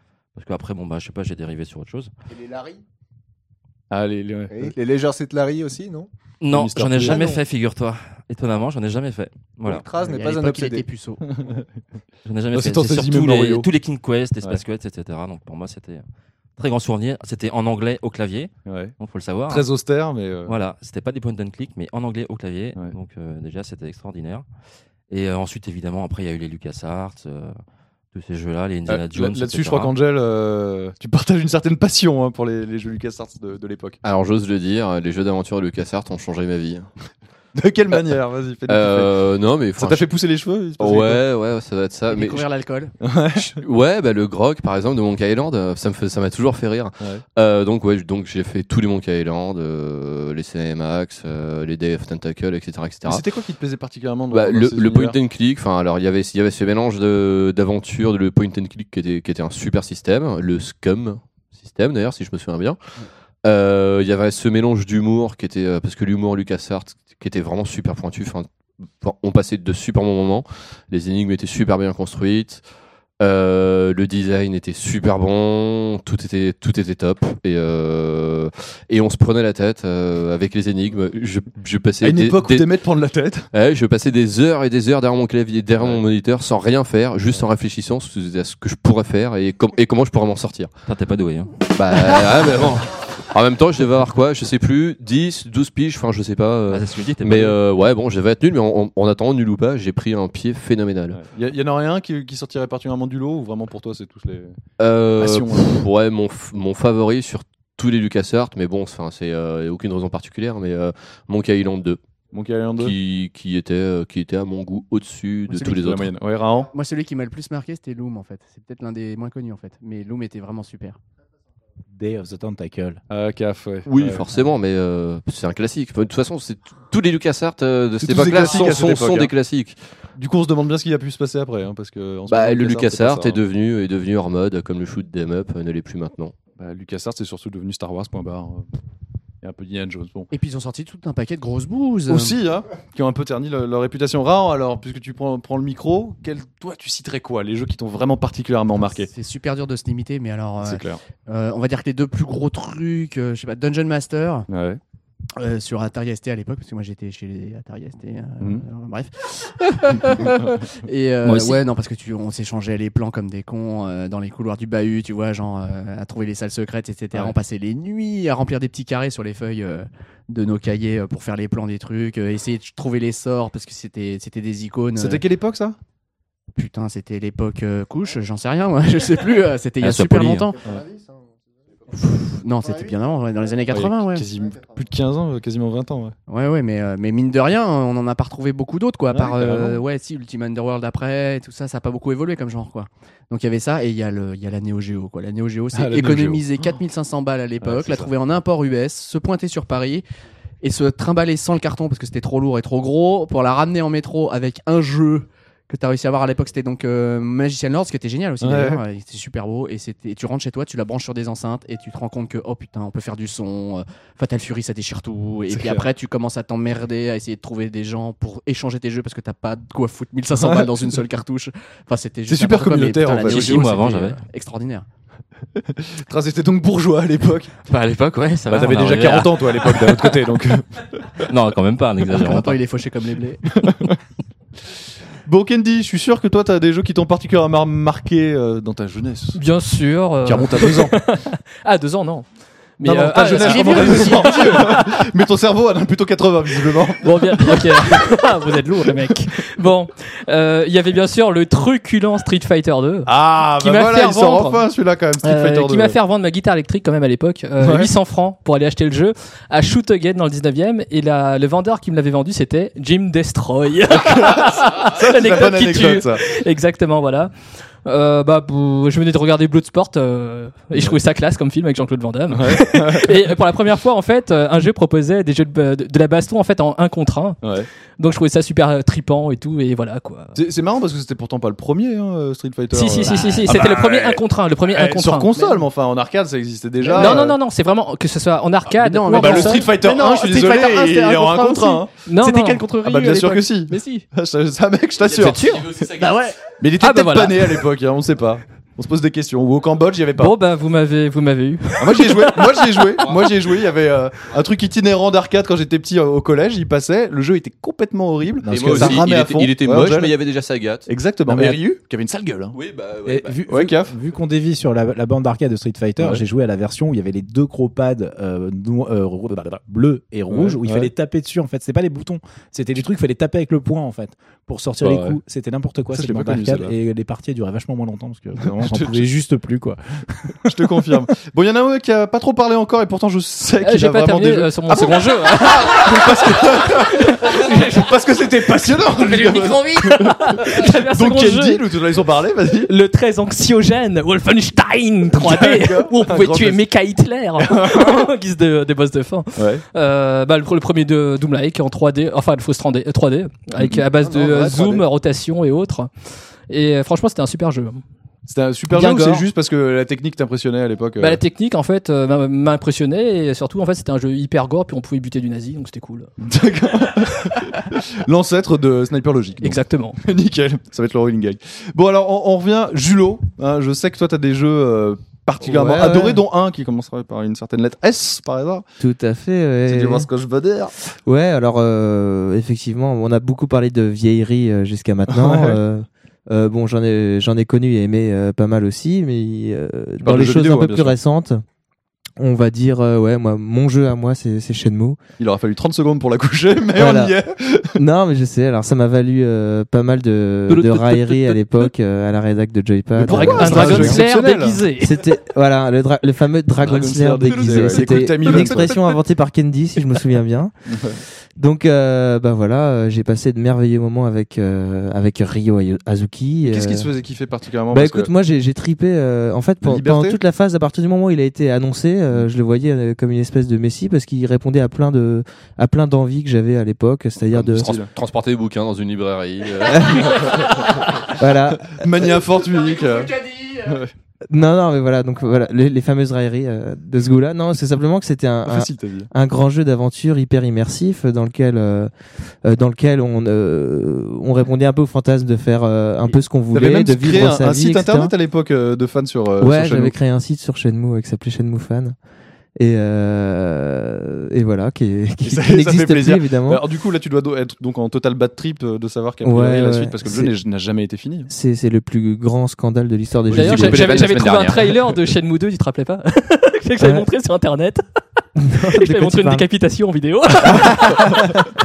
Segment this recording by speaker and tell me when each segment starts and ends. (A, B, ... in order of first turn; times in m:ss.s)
0:00.4-0:02.1 A
0:02.4-0:02.8 B
0:03.9-0:04.7 C
0:04.5-0:06.1 B
0:06.4-0:09.8 A
0:06.5-0:07.3 C
0:06.9-0:07.4 B
0:09.7-0:10.8 B
0:10.0-0:11.2 D
0:11.2-0:11.7 C
0:12.2-0:16.0 A
0:12.5-0:13.7 C
0:16.6-0:19.7 A
0:18.7-0:18.9 C
0:19.5-0:20.5 C
0:20.5-0:24.4 A
0:25.1-0:27.6 A
0:28.1-0:29.9 A
0:28.9-0:34.0 C
0:34.0-0:36.9 E
0:37.6-0:39.2 C
0:38.7-0:40.1 E
0:39.8-0:41.2 C
0:40.8-0:42.4 E
0:42.1-0:42.9 D
0:43.0-0:43.6 C
0:43.5-0:53.2 E
0:53.0-0:55.2 C
0:54.3-1:02.8 E
1:03.4-1:08.5 E
1:09.0-1:12.6 E
1:13.2-1:22.7 E
1:22.0-1:23.5 C
1:23.5-1:30.7 E
1:30.9-1:31.6 A
1:31.7-1:41.2 E
1:36.7-1:37.6 A
1:41.1-1:44.6 C
1:44.8-1:52.0 E
1:45.2-1:45.8 C
1:52.3-1:53.0 C
1:52.8-1:56.1 E
1:55.5-1:56.7 C
1:56.7-2:01.0 D
2:02.0-2:03.0 F
2:03.1-2:04.2 C
2:03.9-2:09.8 E
2:08.0-2:09.3 C
2:10.2-2:13.4 C
2:12.3-2:16.4 E
2:16.6-2:18.7 C
2:19.4-2:20.3 C
2:20.3-2:22.4 D
2:22.1-2:29.1 C
2:28.8-2:34.5 D
2:30.6-2:31.0 C
2:34.5-2:34.8 C
2:35.4-2:55.2 D
2:40.2-2:40.7 C
2:41.2-2:41.6 A
2:55.0-2:55.8 C
2:56.6-3:00.6 D
2:59.8-3:00.5 A
3:00.7-3:01.1 B
3:01.9-3:04.3 D
3:03.7-3:06.2 C
3:06.3-3:20.0 D
3:09.1-3:09.8 C
3:15.7-3:16.4 C
3:17.6-3:18.1 C
3:20.6-3:44.9 D
3:28.4-3:28.8 C
3:35.5-3:35.9 C
3:40.4-3:40.8 C
3:42.3-3:43.7 C
3:43.2-3:44.2 A
3:45.6-3:47.5 C
3:47.7-3:50.1 A
3:48.5-3:51.3 C
3:51.2-3:52.6 A
3:52.1-3:53.4 D
3:53.4-3:54.0 C
3:55.2-3:59.4 C
3:59.3-4:05.1 G
4:00.2-4:01.0 C
4:02.8-4:08.0 C
4:03.4-4:04.6 D
4:06.6-4:14.6 G
4:13.1-4:16.0 C
4:15.2-4:27.3 G
4:17.6-4:17.9 C
4:24.1-4:26.2 C
4:27.8-4:37.4 G
4:32.3-4:33.0 C
4:38.0-4:40.4 G
4:40.4-4:47.4 C
4:42.7-4:45.3 G
4:45.3-4:45.7 D
4:46.8-4:47.2 D
4:46.9-4:49.7 G
4:48.8-4:53.4 D
4:49.2-4:51.9 C
4:52.0-4:54.1 G
4:52.8-4:55.6 C
4:55.1-4:56.1 E
4:55.2-4:55.9 G
4:56.0-4:56.4 D
4:56.6-5:00.4 C
4:56.8-4:57.6 G
5:00.2-5:03.1 G
5:01.8-5:10.2 C
5:08.4-5:09.1 F
5:08.5-5:10.9 E
5:10.9-5:12.6 C
5:11.3-5:11.6 F
5:12.5-5:13.4 E
5:13.1-5:31.0 F
5:13.5-5:14.0 C
5:20.3-5:20.9 C
5:24.8-5:25.2 C
5:25.9-5:26.7 C
5:28.4-5:29.1 C
5:30.5-5:42.7 C
5:33.6-5:41.7 G
5:42.6-5:55.9 G
5:45.1-5:46.6 C
5:47.4-5:47.9 C
5:49.4-5:49.6 C
5:54.0-5:54.8 B
5:56.5-5:57.8 G
5:58.3-6:01.2 C
5:58.7-5:59.3 G
6:01.0-6:06.1 G
6:06.2-6:18.6 C
6:07.0-6:07.4 G
6:09.4-6:10.0 G
6:15.4-6:16.2 H
6:18.8-6:20.1 H
6:19.7-6:20.7 C
6:21.1-6:31.4 H
6:25.1-6:25.6 C
6:30.0-6:31.0 C
6:32.2-6:35.0 H
6:35.2-6:37.8 C
6:36.8-6:37.1 H
6:37.8-6:44.0 H
6:40.5-6:41.4 G
6:43.0-6:44.6 C
6:43.0-6:45.0 G
6:44.8-6:50.5 H
6:46.6-6:48.9 C
6:50.7-6:51.0 C
6:51.4-6:56.9 H
6:56.4-6:58.1 C
6:57.7-7:07.7 H
6:59.6-7:00.2 C
7:07.3-7:10.3 E
7:07.6-7:07.9 C
7:09.7-7:10.1 H
7:10.0-7:10.4 C
7:11.1-7:12.1 H
7:11.6-7:13.9 C
7:14.3-7:21.9 H
7:18.5-7:19.1 C
7:22.4-7:28.1 H
7:26.1-7:30.0 C
7:29.4-7:32.0 H
7:32.6-7:36.6 H
7:35.2-7:41.3 C
7:39.2-7:40.3 H
7:41.3-7:44.0 H
7:43.3-7:47.8 G
7:43.3-7:44.8 E
7:46.8-7:47.1 H
7:48.4-7:49.5 H
7:48.7-7:51.3 G
7:50.4-7:51.5 H